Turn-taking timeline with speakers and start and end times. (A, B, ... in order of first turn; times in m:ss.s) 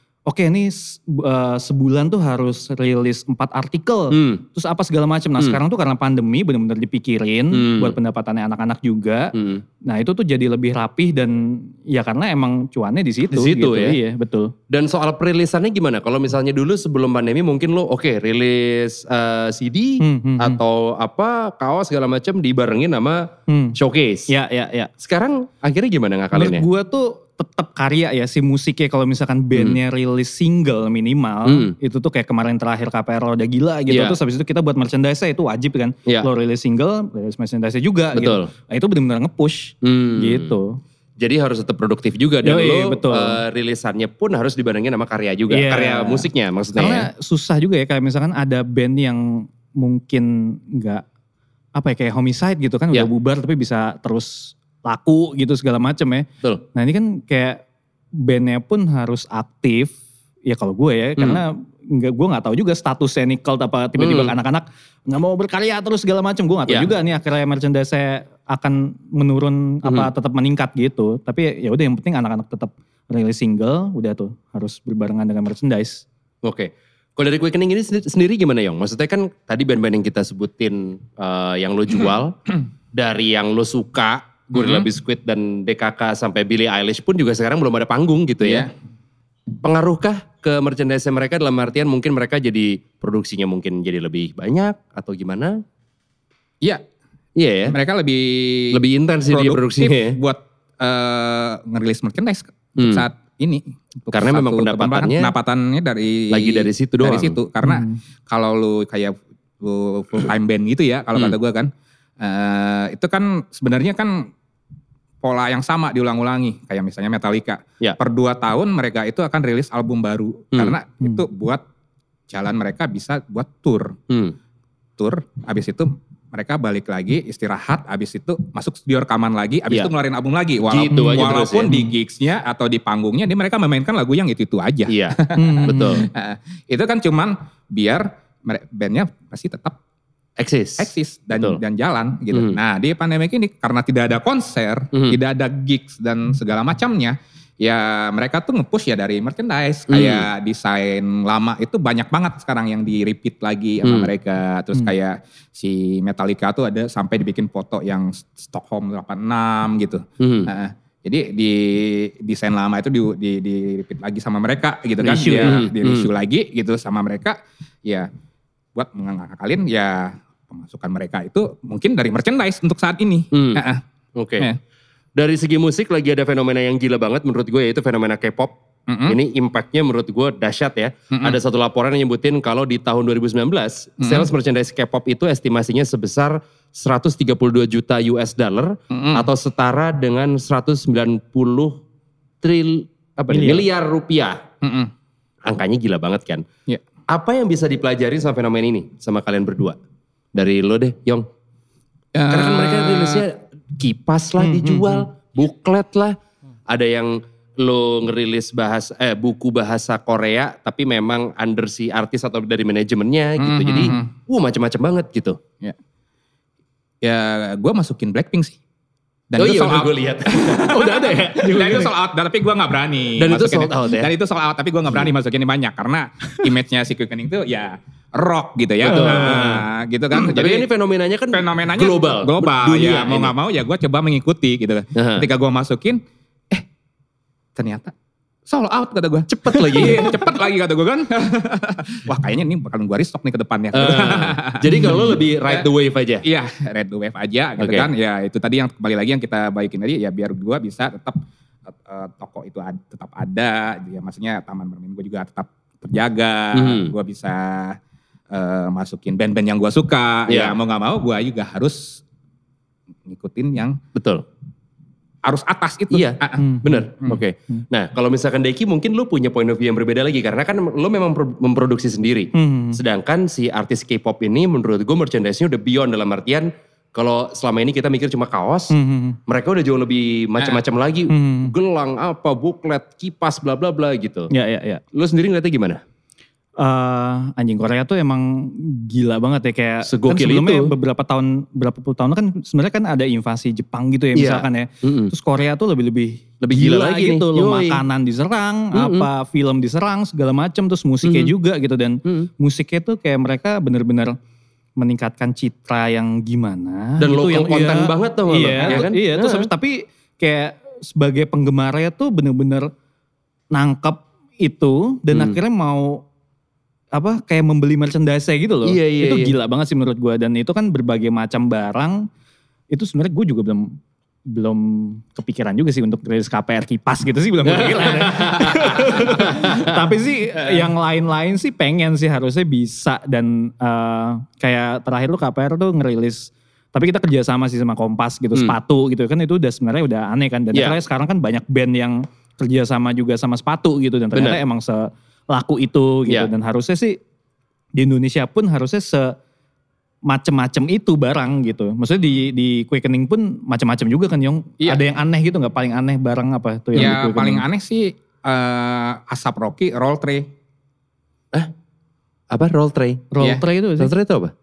0:00.2-0:14.5 A
0:04.1-0:04.4 B
0:07.5-0:07.9 B
0:09.3-0:09.6 B
0:13.3-0:14.0 B
0:14.7-0:24.3 B
0:20.0-0:20.6 A
0:23.5-0:23.8 A
0:24.3-0:24.9 A
0:25.0-0:26.6 B
0:26.3-0:40.8 A
0:31.4-0:31.8 B
0:33.9-0:34.2 B
0:38.1-0:38.5 B
0:39.8-0:40.6 B
0:41.2-0:47.1 B
0:42.4-0:43.4 A
0:45.5-0:51.0 A
0:51.7-0:57.6 A
0:58.1-0:59.9 A
1:00.4-1:16.0 A
1:04.0-1:04.3 B
1:09.8-1:10.1 B
1:16.4-1:22.4 B
1:22.9-1:28.7 B
1:24.5-1:24.9 C
1:28.4-1:28.7 C
1:29.6-1:35.6 B
1:37.4-1:37.8 B
1:37.7-1:54.3 C
1:38.7-1:40.2 B
1:42.8-1:43.0 B
1:44.1-1:45.3 B
1:46.3-1:47.4 B
1:47.6-1:48.0 A
1:55.2-2:01.6 C
2:02.3-2:04.0 C
2:04.1-2:04.3 B
2:05.0-2:19.8 C
2:10.7-2:11.7 B
2:14.9-2:16.1 B
2:15.4-2:16.1 A
2:20.4-2:21.6 B
2:20.8-2:48.1 C
2:22.3-2:22.6 B
2:24.9-2:25.2 B
2:29.9-2:30.3 B
2:33.8-2:34.1 B
2:40.2-2:40.5 B
2:45.0-2:45.6 A
2:45.4-2:46.1 B
2:48.7-2:53.8 C
2:53.3-2:53.6 B
2:54.2-2:54.5 B
2:55.2-2:58.5 B
2:58.9-2:59.2 C
2:59.0-3:11.8 B
3:01.1-3:01.4 C
3:04.0-3:04.3 C
3:08.9-3:09.3 C
3:12.4-3:14.4 B
3:13.3-3:13.6 A
3:14.6-3:14.9 C
3:15.4-3:16.4 B
3:17.1-3:19.8 B
3:20.3-3:21.2 B
3:22.1-3:23.2 C
3:22.3-3:26.2 B
3:24.4-3:25.0 A
3:26.7-3:35.4 B
3:33.4-3:34.1 C
3:37.0-3:38.6 C
3:39.3-3:50.7 C
3:39.4-3:41.9 B
3:43.2-3:44.1 B
3:48.8-3:53.3 B
3:49.2-3:49.5 A
3:51.3-3:56.6 C
3:54.9-3:55.3 B
3:57.6-3:57.9 C
3:58.5-4:05.7 C
3:59.3-4:00.3 B
4:03.7-4:06.2 B
4:06.2-4:11.2 C
4:07.6-4:07.9 B
4:11.8-4:17.8 C
4:16.5-4:16.9 B
4:18.3-4:22.0 C
4:20.3-4:20.6 B
4:23.1-4:23.8 C
4:23.9-4:24.2 B
4:25.2-4:27.2 C
4:25.9-4:38.8 B
4:26.4-4:26.8 A
4:32.3-4:32.8 A
4:38.7-4:39.2 A
4:39.3-4:44.3 B
4:41.1-4:41.5 A
4:44.3-4:44.8 A
4:44.9-4:45.8 B
4:46.6-5:04.2 A
4:49.8-4:50.7 B
4:54.1-4:55.1 B
4:56.4-4:57.8 B
4:58.7-4:59.1 B
5:01.0-5:01.3 B
5:04.8-5:12.7 A
5:07.0-5:09.4 B
5:13.5-5:16.0 A
5:15.1-5:15.4 B
5:16.9-5:22.1 A
5:18.6-5:19.3 B
5:22.7-5:23.8 A
5:24.3-5:47.0 A
5:27.4-5:29.8 B
5:44.1-5:44.4 B
5:47.7-5:49.1 A
5:50.0-5:57.4 A
5:56.7-6:00.3 C
6:02.3-6:03.1 B
6:03.1-6:03.9 A
6:03.8-6:04.3 B